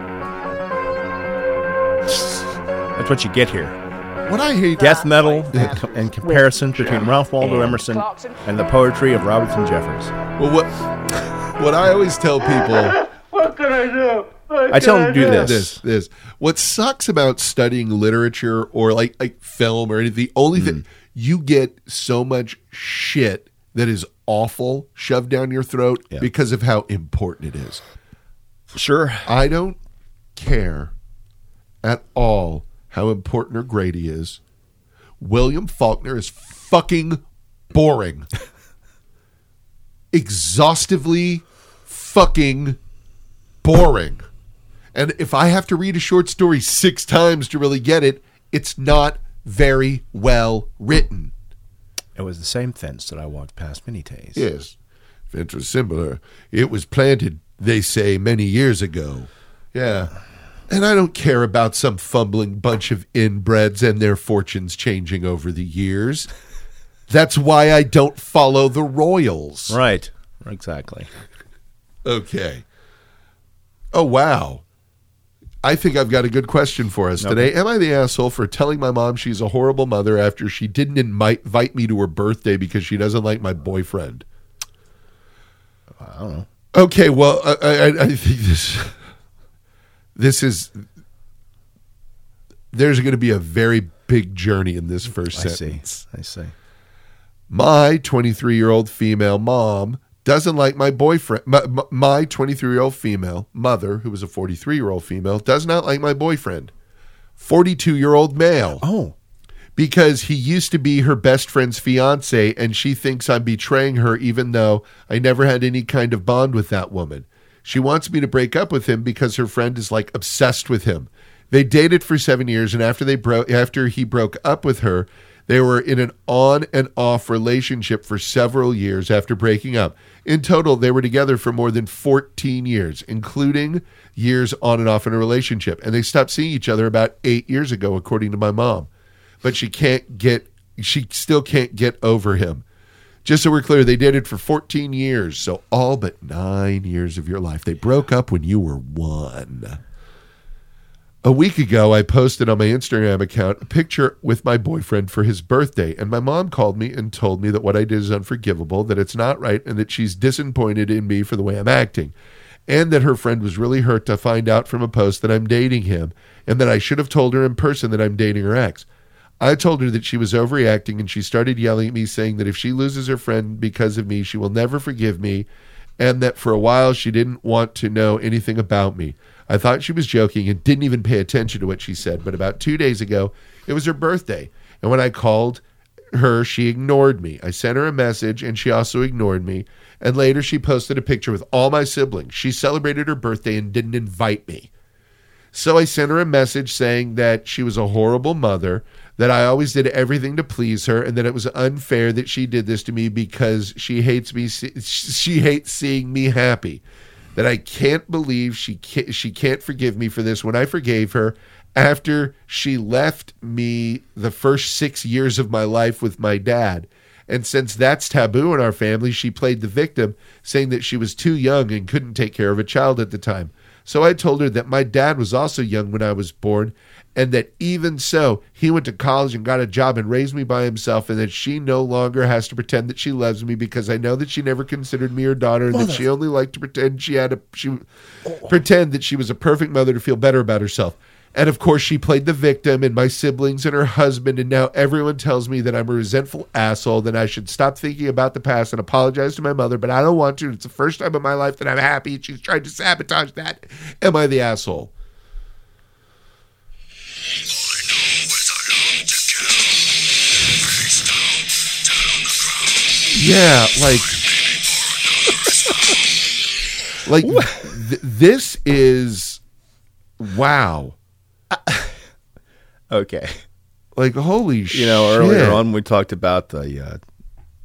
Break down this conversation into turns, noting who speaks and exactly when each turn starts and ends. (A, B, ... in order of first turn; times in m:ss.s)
0:02.1-0:02.4 A
0:03.0-0:03.8 A
0:04.2-0:05.8 B
0:04.8-0:10.1 A
0:04.8-0:08.4 C
0:10.4-0:10.7 B
0:11.4-0:13.0 B
0:13.3-0:14.7 C
0:14.7-0:15.8 A
0:15.1-0:27.8 B
0:20.5-0:20.8 A
0:28.7-0:29.3 A
0:29.2-0:29.8 B
0:30.4-0:30.9 B
0:31.8-0:34.4 B
0:35.2-0:38.3 B
0:40.1-0:42.8 B
0:43.6-0:44.2 B
0:44.9-0:51.3 B
0:52.2-0:54.4 A
0:54.3-0:54.7 B
0:55.3-1:00.1 B
1:00.7-1:06.3 B
1:07.1-1:09.8 B
1:09.7-1:11.1 A
1:12.0-1:12.6 B
1:13.9-1:14.6 B
1:15.6-1:24.2 B
1:17.2-1:17.5 A
1:26.0-1:26.5 A
1:26.7-1:28.9 B
1:30.2-1:30.8 B
1:32.7-1:36.0 B
1:35.3-1:36.5 A
1:37.5-1:46.7 B
1:47.4-1:48.8 B
1:48.8-1:49.1 A
1:49.8-2:18.9 B
2:19.4-2:22.6 B
2:23.2-2:29.8 B
2:31.2-2:42.1 B
2:42.7-2:48.9 B
2:49.4-2:55.5 B
2:56.0-3:05.6 B
3:06.1-3:14.7 B
3:15.5-3:26.8 B
3:27.4-3:57.9 B
3:55.7-3:56.0 A
3:58.4-4:14.9 B
4:23.1-4:24.2 B
4:27.0-4:29.4 B
4:27.2-4:27.8 A
4:30.2-4:30.9 B
4:31.5-4:31.9 A
4:32.9-4:33.4 A
4:34.0-4:35.6 B
4:34.7-4:37.0 A